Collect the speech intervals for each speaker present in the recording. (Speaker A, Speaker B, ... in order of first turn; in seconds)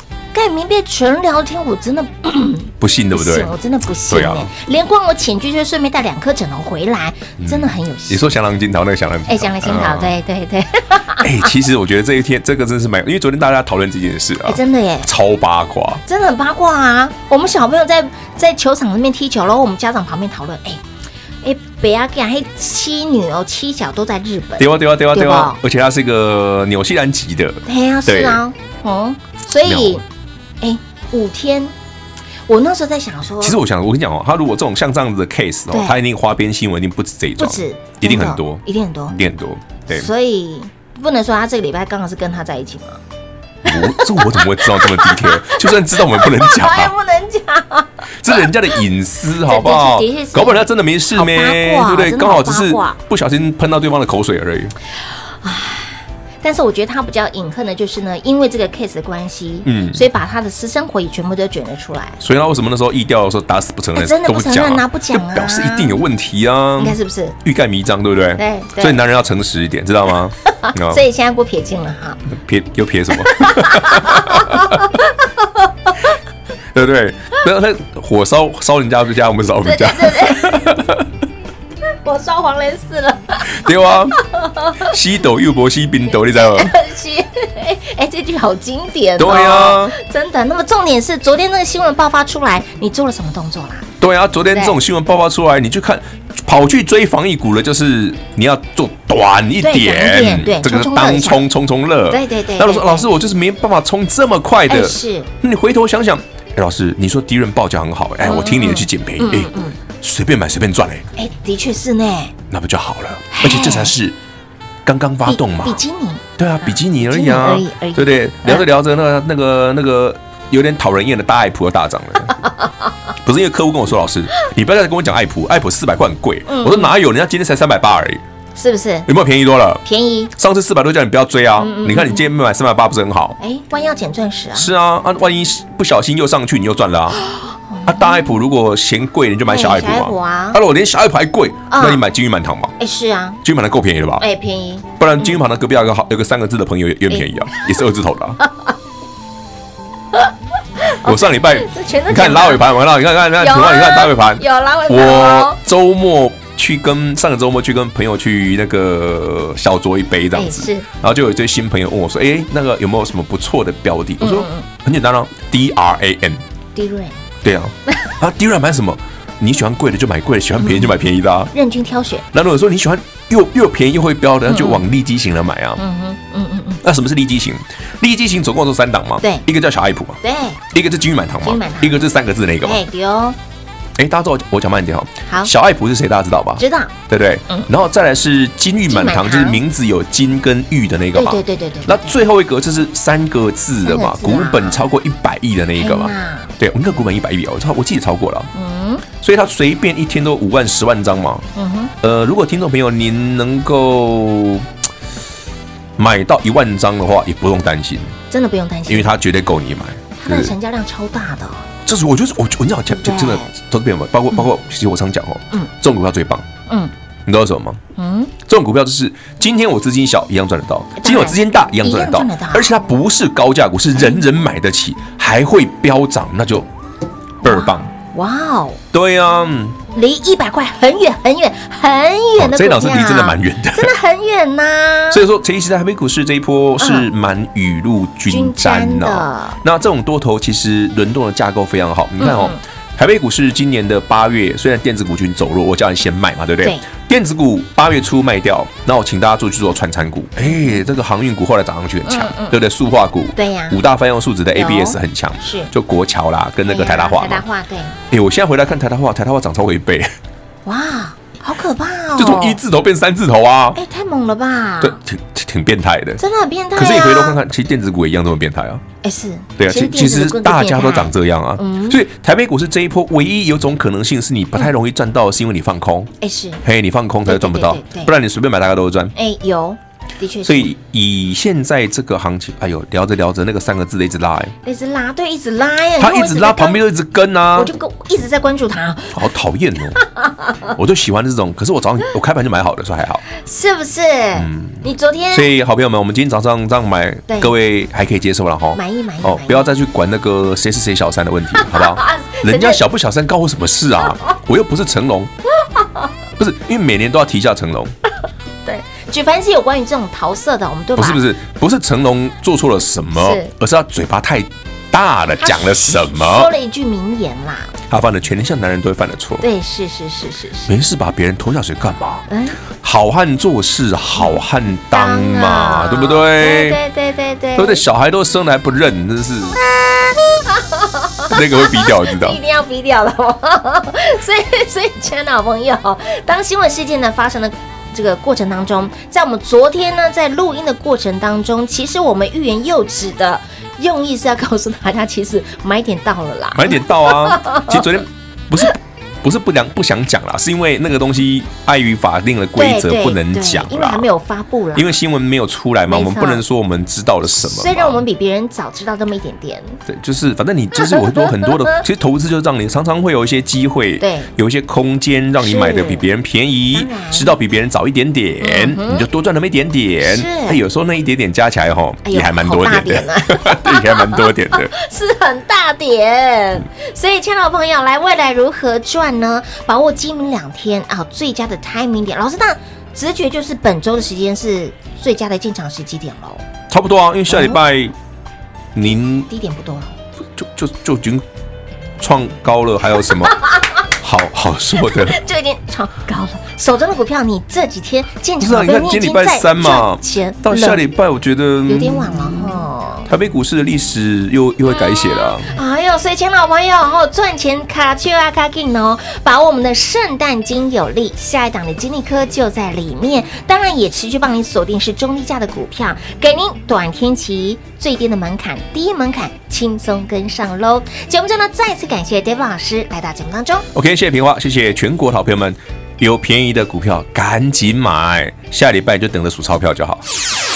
Speaker A: 0.3-8.2, 9.3-11.5, 14.4-15.1, 16.1-20.8, 21.4-25.6, 27.6-30.0, 30.6-31.7, 32.5-33.6, 35.7-36.0, 37.4-39.2, 39.9-43.0, 43.6-48.5, 49.5-53.0, 55.4-62.2, 63.9-66.0, 66.8-67.3, 68.4-69.0, 70.5-72.2, 73.2-75.1, 79.6-80.7, 82.0-83.6, 84.2-84.9, 86.3-93.9, 94.5-94.8, 99.6-101.4, 102.1-103.1, 104.7-105.3, 108.2-109.8, 111.2-112.3, 113.3-113.9, 115.3-118.7, 126.5-127.0, 128.6-129.1, 129.8-130.3, 131.6-132.2, 133.4-134.7, 137.2-138.2, 139.5-140.6, 141.7-142.0, 142.8-143.4, 144.2-145.4, 147.1-147.6, 148.4-148.7, 150.1-152.7, 153.4-155.6, 160.3-160.8, 164.2-164.7, 166.7-167.2, 170.6-171.0, 171.5-172.2, 174.5-174.8, 175.8-176.8, 180.2-180.6, 181.4-182.0, 182.6-183.4, 185.2-185.5, 186.6-186.9, 188.9-189.6, 191.1-192.2, 193.8-194.9, 195.8-196.5, 198.5-199.0, 201.5-201.9, 208.3-209.1, 210.2-211.7, 212.9-213.5, 218.0-218.3, 221.0-222.9, 227.4-228.8, 229.9-235.2, 236.8-237.1, 238.3-239.6, 242.2-242.6, 250.4-250.8, 252.1-252.6, 253.3-253.8, 254.5-255.7, 256.6-258.0, 260.6-262.6, 263.7-265.0, 266.2-267.4, 269.0-272.0, 276.2-276.6, 277.2-278.1, 279.1-280.7, 284.6-286.8, 287.5-289.2, 290.0-290.7, 293.3-295.5, 297.3-297.5, 298.7-299.7, 301.5-302.8, 305.8-306.1, 308.6-311.2, 313.2-313.5, 315.4-317.7, 319.4-320.7, 322.3-322.6, 324.9-327.8, 330.5-347.9, 352.6-355.0, 355.9-356.4, 357.4-359.8, 360.9-361.8, 364.0-364.3, 365.4-366.1, 366.7-367.3, 368.4-369.1, 370.0-370.6, 372.0-386.4, 387.3-387.6, 388.9-389.9, 393.2-393.7, 394.8-400.8, 401.6-403.1, 404.6-423.6
Speaker B: 2.8-3.5, 4.1-4.5, 7.4-10.1, 11.2-16.0, 24.6-28.4, 29.6-30.0, 33.4-40.1, 43.6-46.9, 48.2-54.7, 59.6-60.0, 62.2-71.0, 72.3-74.8, 76.7-81.1, 83.5-84.2, 84.8-86.7, 89.2-89.9, 94.0-111.0, 112.5-114.2, 114.8-115.8, 116.4-122.3, 123.2-128.2, 129.1-129.8, 130.4-133.4, 134.5-137.2, 137.8-142.7, 143.4-144.2, 145.0-148.4, 151.0-166.4, 167.4-171.5, 172.3-175.8, 176.8-182.8, 184.0-198.5, 199.2-201.4, 202.0-204.7, 206.0-208.1, 208.9-210.5, 211.8-216.4, 217.2-217.8, 218.4-226.7, 227.4-227.9, 228.9-229.8, 232.4-233.9, 235.1-257.4, 258.1-260.1, 262.1-263.8, 264.8-266.2, 266.7-268.8, 269.6-276.1, 276.6-279.1, 280.4-284.5, 286.0-287.7, 289.1-290.0, 290.7-293.2, 294.3-305.3, 306.4-307.9, 310.9-316.5, 317.9-319.4, 320.7-326.8, 327.6-329.6, 331.3-332.4, 346.5-354.1, 354.7-358.0, 359.9-374.7, 386.7-387.9, 388.7-389.3, 390.3-391.2, 392.0-395.2, 398.4-402.5, 403.1-405.5, 423.7-430.0